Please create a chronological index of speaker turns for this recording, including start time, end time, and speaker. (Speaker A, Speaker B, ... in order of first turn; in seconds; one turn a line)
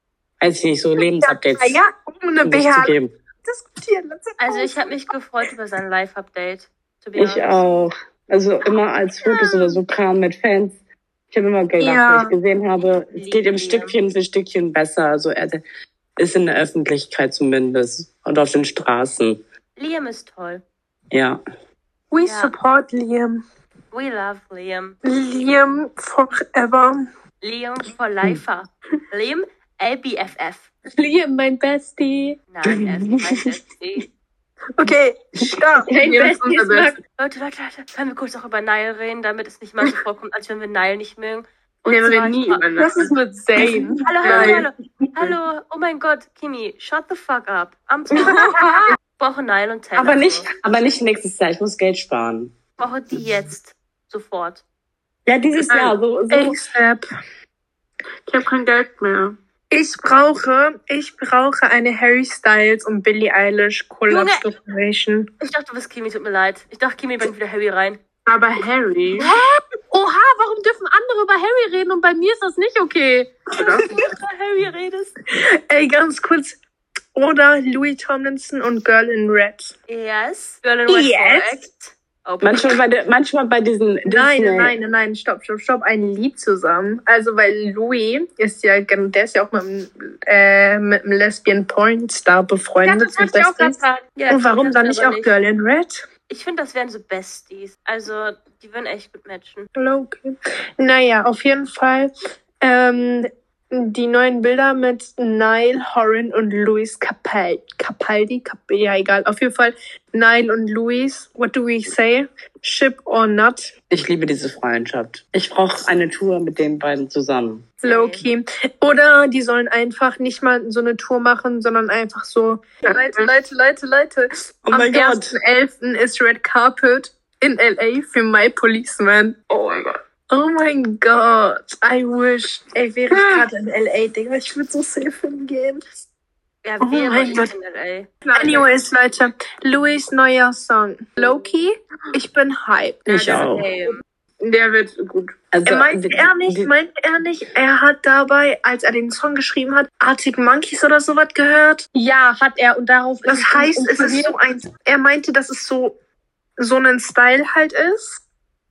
Speaker A: 0.4-1.8
Speaker B: 1.0-5.0
Speaker A: 2.4-3.1
Speaker C: 4.4-7.7
Speaker A: 7.2-10.8
Speaker B: 9.3-9.8
Speaker A: 11.3-15.6
Speaker B: 11.8-12.3
Speaker C: 12.8-13.9
Speaker A: 16.2-19.4
Speaker C: 19.8-20.6
Speaker A: 21.1-21.4
Speaker B: 22.1-23.4
Speaker C: 22.2-22.5
Speaker C: 23.9-25.0
Speaker B: 25.0-27.0
Speaker C: 27.4-30.7
Speaker D: 30.9-32.4
Speaker C: 32.5-34.1
Speaker A: 32.6-33.5
Speaker B: 34.8-35.9
Speaker D: 35.9-37.0
Speaker E: 35.9-36.9
Speaker C: 37.2-42.8
Speaker E: 41.9-43.1
Speaker B: 42.8-44.6
Speaker C: 44.0-50.5
Speaker E: 44.1-44.6
Speaker B: 48.2-48.9
Speaker A: 50.0-52.5
Speaker C: 52.8-54.6
Speaker A: 55.2-56.5
Speaker B: 56.3-57.1
Speaker E: 58.3-59.4
Speaker B: 59.7-65.3
Speaker C: 64.1-64.5
Speaker C: 65.4-68.0
Speaker E: 68.2-69.3
Speaker D: 69.1-73.3
Speaker E: 73.5-73.9
Speaker C: 73.7-75.1
Speaker B: 75.7-76.6
Speaker B: 77.1-79.7
Speaker C: 79.9-82.8
Speaker B: 80.9-81.6
Speaker A: 82.4-84.7
Speaker B: 84.1-96.0
Speaker D: 92.8-94.0
Speaker C: 94.2-95.4
Speaker C: 96.3-99.7
Speaker B: 99.7-113.7
Speaker A: 113.9-117.6
Speaker C: 117.8-118.2
Speaker B: 117.8-129.4
Speaker E: 122.8-123.3
Speaker A: 124.7-125.3
Speaker E: 129.5-130.0
Speaker B: 130.3-135.8
Speaker E: 133.1-133.5
Speaker C: 136.6-138.1
Speaker B: 136.8-137.5
Speaker E: 138.2-138.7
Speaker B: 138.3-143.5
Speaker C: 143.1-144.0
Speaker A: 143.1-143.7
Speaker E: 144.4-145.3
Speaker A: 145.5-146.7
Speaker B: 145.7-151.8
Speaker D: 151.9-154.3
Speaker B: 153.2-155.9
Speaker B: 156.6-158.2